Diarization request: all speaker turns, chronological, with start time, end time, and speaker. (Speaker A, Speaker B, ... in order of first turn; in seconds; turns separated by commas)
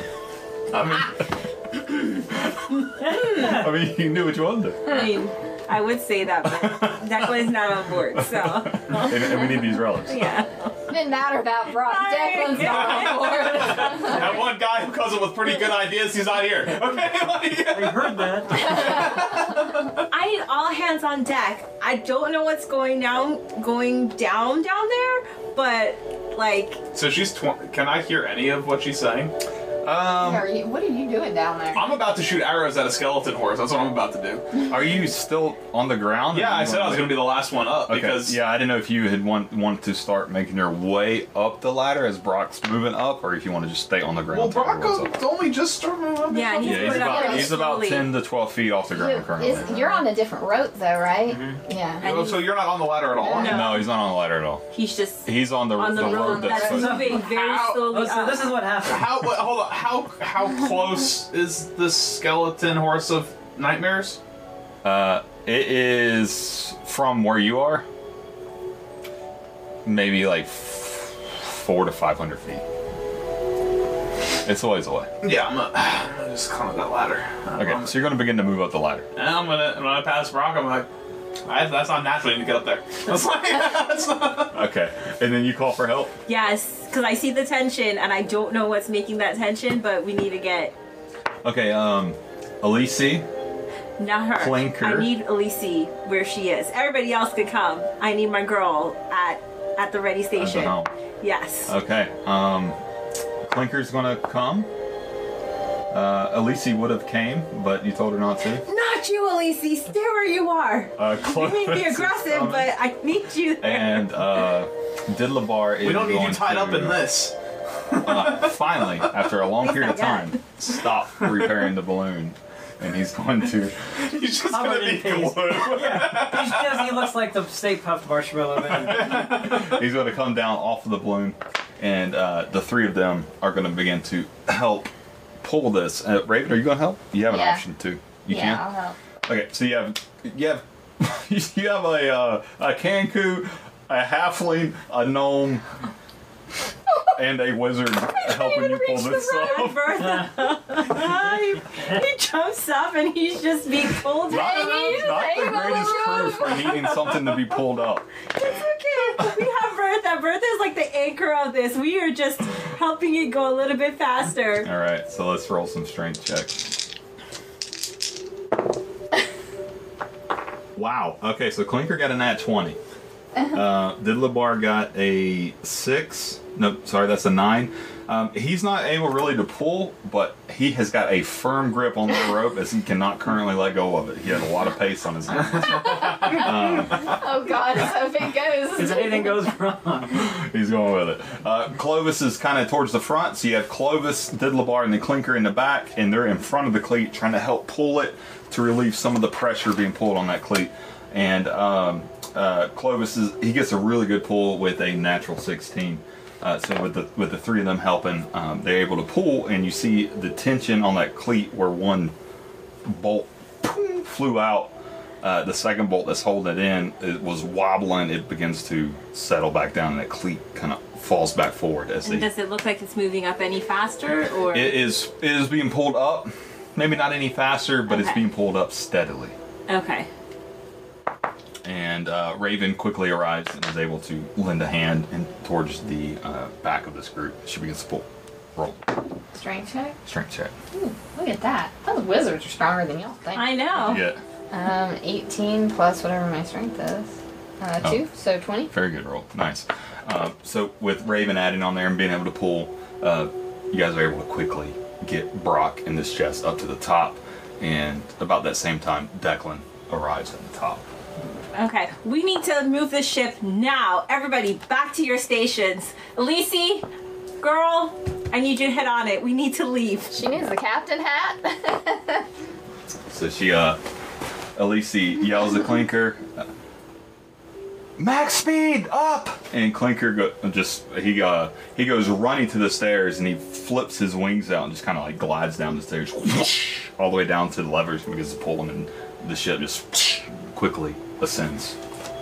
Speaker A: 0.7-1.2, Speaker A: 1.8-5.1, Speaker B: 3.1-3.7, Speaker C: 4.9-10.7, Speaker A: 6.5-7.3, Speaker A: 8.1-10.3, Speaker D: 10.9-14.4, Speaker C: 11.7-14.0, Speaker E: 12.6-20.0, Speaker B: 17.7-18.9, Speaker C: 20.1-26.8, Speaker E: 26.9-29.3, Speaker A: 29.8-30.5, Speaker D: 30.2-32.0, Speaker E: 31.8-34.6, Speaker A: 34.7-45.1, Speaker E: 36.3-38.4, Speaker E: 44.3-47.5, Speaker C: 46.3-48.1, Speaker A: 46.6-49.8, Speaker D: 47.1-47.5, Speaker D: 48.9-52.0, Speaker C: 49.7-50.0, Speaker B: 51.3-51.6, Speaker C: 52.0-52.6, Speaker E: 52.0-53.7, Speaker D: 53.2-53.8, Speaker C: 53.2-54.0, Speaker A: 53.4-54.6, Speaker C: 54.7-58.6, Speaker A: 55.2-57.2, Speaker B: 56.5-59.2, Speaker E: 57.2-57.9, Speaker E: 58.8-64.2, Speaker A: 64.8-67.9, Speaker A: 69.8-72.6, Speaker A: 74.4-75.1, Speaker E: 75.2-78.1, Speaker A: 77.6-79.1, Speaker E: 79.2-80.9, Speaker E: 81.5-84.6, Speaker A: 84.5-86.1, Speaker C: 86.3-90.8, Speaker A: 91.4-93.3, Speaker C: 94.0-101.7, Speaker A: 94.4-95.1, Speaker A: 100.4-100.9, Speaker A: 101.7-102.8, Speaker A: 103.5-104.7, Speaker A: 105.9-108.7, Speaker C: 108.7-114.3, Speaker A: 111.0-112.7, Speaker A: 113.6-117.1, Speaker E: 115.8-117.3, Speaker E: 117.9-118.5, Speaker A: 117.9-123.8, Speaker C: 119.6-120.4, Speaker E: 123.9-127.1, Speaker B: 124.4-129.4, Speaker A: 125.0-126.1, Speaker A: 128.9-134.9, Speaker E: 129.1-129.7, Speaker A: 135.4-138.6, Speaker D: 137.3-137.6, Speaker D: 138.3-139.0, Speaker A: 139.3-145.6, Speaker A: 147.1-150.1, Speaker C: 148.1-156.1, Speaker B: 150.0-152.0, Speaker D: 154.3-156.8, Speaker A: 154.3-158.1, Speaker C: 158.3-164.7, Speaker A: 164.6-166.7, Speaker A: 170.8-172.8, Speaker A: 173.5-187.2, Speaker D: 185.8-189.4, Speaker B: 188.8-190.3, Speaker A: 190.2-212.2, Speaker A: 212.9-222.3, Speaker C: 222.1-224.8, Speaker A: 224.5-229.3, Speaker C: 227.9-228.2, Speaker C: 229.7-230.1, Speaker A: 231.6-238.9, Speaker D: 239.3-240.0, Speaker A: 240.1-240.5, Speaker D: 240.7-243.6, Speaker C: 243.3-244.1, Speaker A: 243.7-244.2, Speaker D: 244.5-248.7, Speaker A: 248.7-260.8, Speaker C: 261.5-266.9, Speaker C: 267.4-270.2, Speaker D: 270.1-272.2, Speaker A: 273.1-273.8, Speaker A: 274.6-276.5, Speaker A: 278.0-291.8